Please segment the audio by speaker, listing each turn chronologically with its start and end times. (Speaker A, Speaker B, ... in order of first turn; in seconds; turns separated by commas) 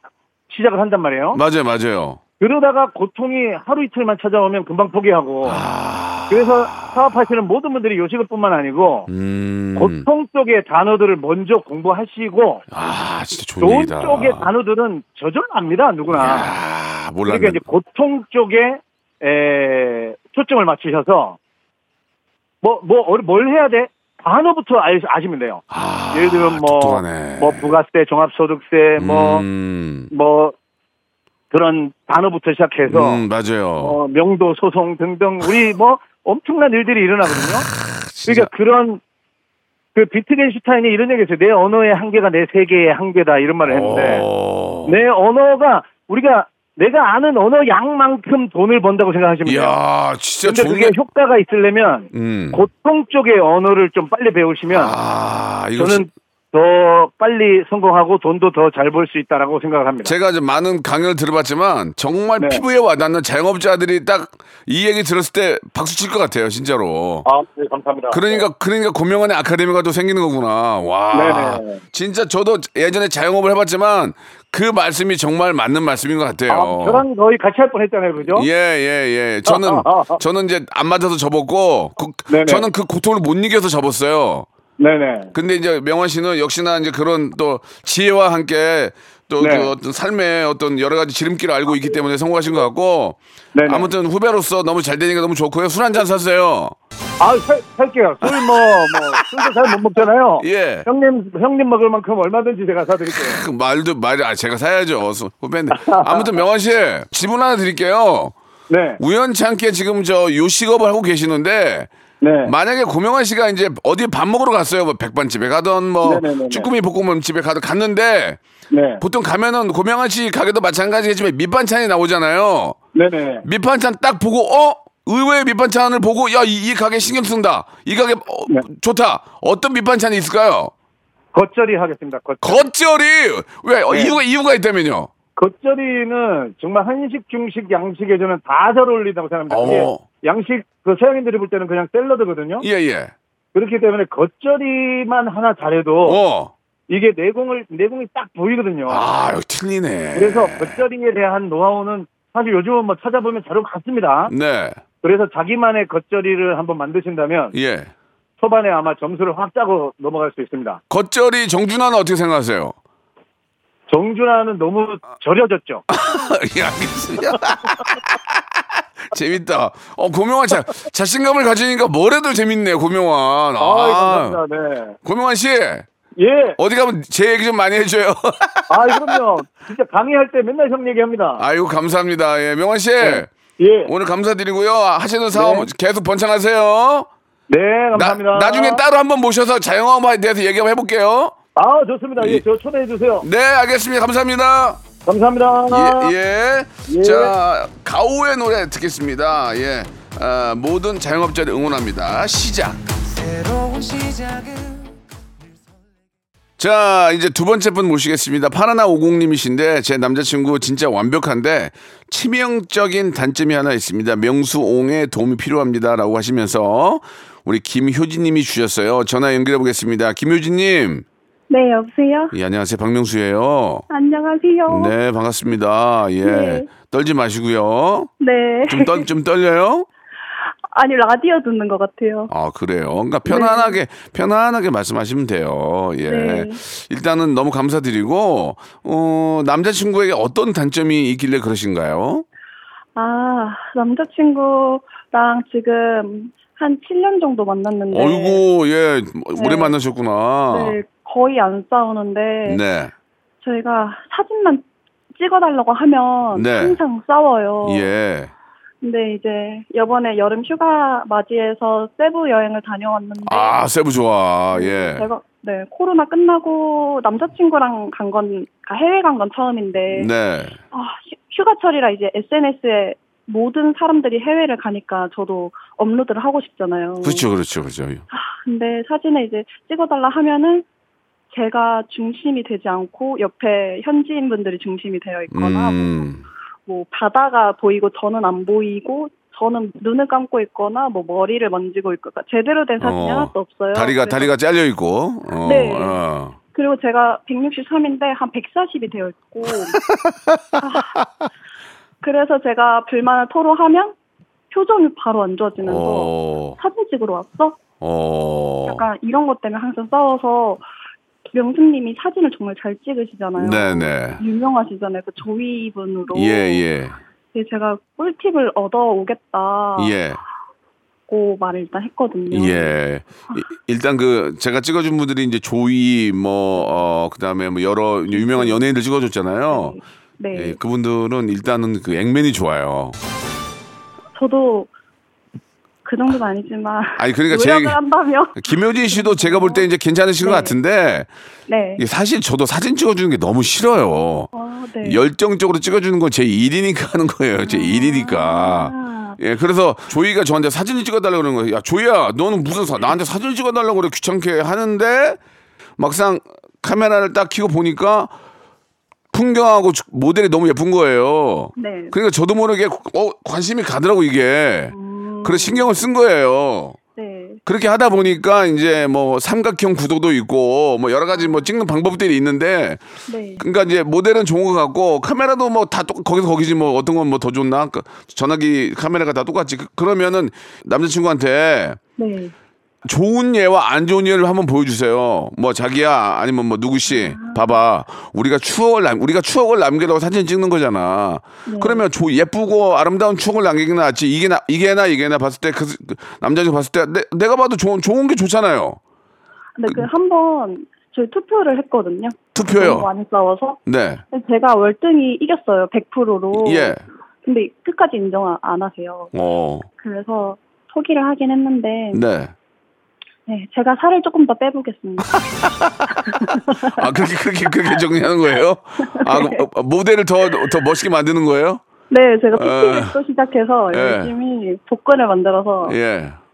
Speaker A: 0.5-1.4, Speaker B: 1.3-2.2, Speaker A: 2.4-5.6, Speaker B: 5.5-7.1, Speaker A: 6.3-9.1, Speaker B: 9.1-10.1, Speaker A: 9.8-12.7, Speaker B: 12.7-14.5, Speaker A: 13.6-16.5, Speaker B: 16.1-17.6, Speaker A: 17.3-21.4, Speaker A: 22.6-29.4, Speaker B: 25.7-27.7, Speaker B: 29.0-30.1, Speaker A: 30.1-30.6, Speaker A: 31.5-33.2, Speaker B: 32.9-34.0, Speaker A: 33.8-37.7, Speaker B: 37.9-38.5, Speaker A: 38.2-39.0, Speaker A: 40.0-44.2, Speaker B: 43.6-45.0, Speaker A: 44.9-49.8, Speaker B: 49.5-51.0, Speaker A: 50.4-55.0, Speaker B: 52.1-52.6, Speaker B: 54.7-56.1, Speaker A: 55.8-60.1, Speaker B: 60.0-67.2, Speaker A: 67.2-68.5, Speaker B: 68.1-77.0, Speaker A: 71.1-71.8, Speaker A: 76.5-78.5, Speaker B: 78.2-84.5, Speaker A: 79.5-80.2, Speaker A: 82.3-82.7, Speaker A: 84.8-85.3, Speaker B: 85.3-96.8, Speaker A: 89.4-89.7, Speaker A: 93.5-93.9, Speaker A: 97.2-103.4, Speaker B: 98.2-99.7, Speaker B: 100.4-100.9, Speaker B: 103.1-108.3, Speaker A: 105.7-106.3, Speaker A: 108.7-109.0, Speaker B: 109.0-111.9, Speaker A: 112.2-112.5, Speaker B: 112.5-118.4, Speaker A: 116.0-116.7, Speaker A: 118.7-119.0, Speaker B: 119.0-122.8, Speaker A: 123.0-123.5, Speaker B: 123.4-130.7, Speaker A: 131.3-132.7, Speaker B: 132.4-135.1, Speaker A: 133.9-134.2, Speaker A: 135.4-142.7, Speaker B: 139.5-140.1, Speaker B: 142.6-143.1, Speaker A: 143.5-146.2, Speaker B: 146.0-146.5, Speaker A: 146.9-149.0, Speaker B: 148.9-150.8, Speaker A: 150.2-154.3, Speaker B: 154.3-154.8, Speaker A: 155.0-157.6, Speaker B: 157.5-157.9, Speaker A: 158.4-160.8, Speaker B: 160.9-162.8, Speaker A: 163.9-165.8, Speaker B: 165.9-174.4, Speaker A: 173.6-174.9, Speaker B: 175.0-175.9, Speaker A: 176.2-176.6, Speaker B: 176.6-179.2, Speaker A: 178.7-181.4, Speaker B: 181.4-183.3, Speaker A: 183.0-183.9, Speaker B: 183.9-187.1, Speaker A: 185.3-185.7, Speaker A: 187.5-188.8, Speaker B: 187.9-191.4, Speaker A: 191.6-193.2, Speaker B: 192.2-192.4, Speaker B: 193.2-194.8, Speaker A: 195.1-196.1, Speaker B: 195.7-202.8, Speaker A: 196.9-197.3, Speaker B: 206.6-221.1, Speaker C: 221.5-222.3, Speaker B: 222.3-223.9, Speaker C: 223.9-224.9, Speaker B: 224.7-228.1, Speaker C: 226.2-226.7, Speaker C: 228.2-229.1, Speaker B: 228.7-229.9, Speaker C: 230.7-232.3, Speaker B: 232.3-242.2, Speaker C: 233.2-233.8, Speaker C: 236.1-236.6, Speaker C: 243.0-248.4, Speaker B: 247.9-250.8, Speaker C: 249.4-249.7, Speaker C: 250.5-252.6, Speaker B: 252.4-252.9, Speaker C: 253.4-257.9, Speaker B: 256.3-256.8, Speaker B: 257.6-258.3, Speaker C: 258.8-263.6, Speaker B: 263.2-265.1, Speaker C: 264.5-270.1, Speaker B: 269.9-270.6, Speaker C: 270.7-277.3, Speaker B: 277.0-278.0, Speaker C: 278.1-280.6, Speaker C: 281.3-286.0, Speaker B: 285.3-286.2, Speaker C: 286.7-294.3, Speaker B: 292.8-296.4, Speaker C: 295.4-296.0, Speaker C: 296.5-299.8, Speaker B: 299.5-301.1, Speaker C: 300.6-300.9, Speaker C: 302.0-304.0, Speaker C: 304.5-307.6, Speaker B: 305.6-306.6, Speaker B: 307.8-308.9, Speaker C: 308.7-310.6, Speaker C: 311.3-316.6, Speaker B: 313.4-314.2, Speaker B: 316.1-317.0, Speaker C: 317.3-320.0, Speaker B: 319.8-320.2, Speaker C: 321.1-322.8, Speaker B: 322.3-329.8, Speaker C: 328.1-328.6, Speaker C: 329.5-330.6, Speaker B: 330.3-333.0, Speaker C: 334.2-334.7, Speaker C: 335.9-339.7, Speaker B: 337.0-337.8, Speaker B: 338.4-341.1, Speaker C: 340.2-340.6, Speaker C: 341.5-341.8, Speaker B: 341.8-344.3, Speaker C: 344.3-345.0, Speaker B: 344.8-355.2, Speaker C: 347.4-349.2, Speaker B: 355.8-358.1, Speaker B: 359.1-366.8, Speaker C: 361.6-362.0, Speaker C: 364.7-365.7, Speaker C: 367.0-367.4, Speaker B: 367.5-372.8, Speaker C: 371.1-371.5, Speaker C: 373.1-373.4, Speaker B: 373.4-381.8, Speaker C: 382.0-382.3, Speaker B: 382.9-398.8, Speaker C: 386.9-387.6, Speaker C: 391.5-391.8, Speaker C: 399.6-403.6, Speaker B: 402.3-402.9, Speaker B: 403.7-404.0, Speaker C: 404.1-409.1, Speaker B: 406.3-406.8, Speaker B: 409.1-409.7, Speaker C: 409.8-412.0, Speaker B: 411.9-412.3, Speaker C: 413.3-415.1, Speaker B: 415.1-421.6, Speaker C: 416.0-416.9, Speaker C: 418.9-419.5, Speaker C: 421.9-425.8, Speaker B: 422.3-423.0, Speaker B: 423.7-424.1, Speaker B: 425.6-426.2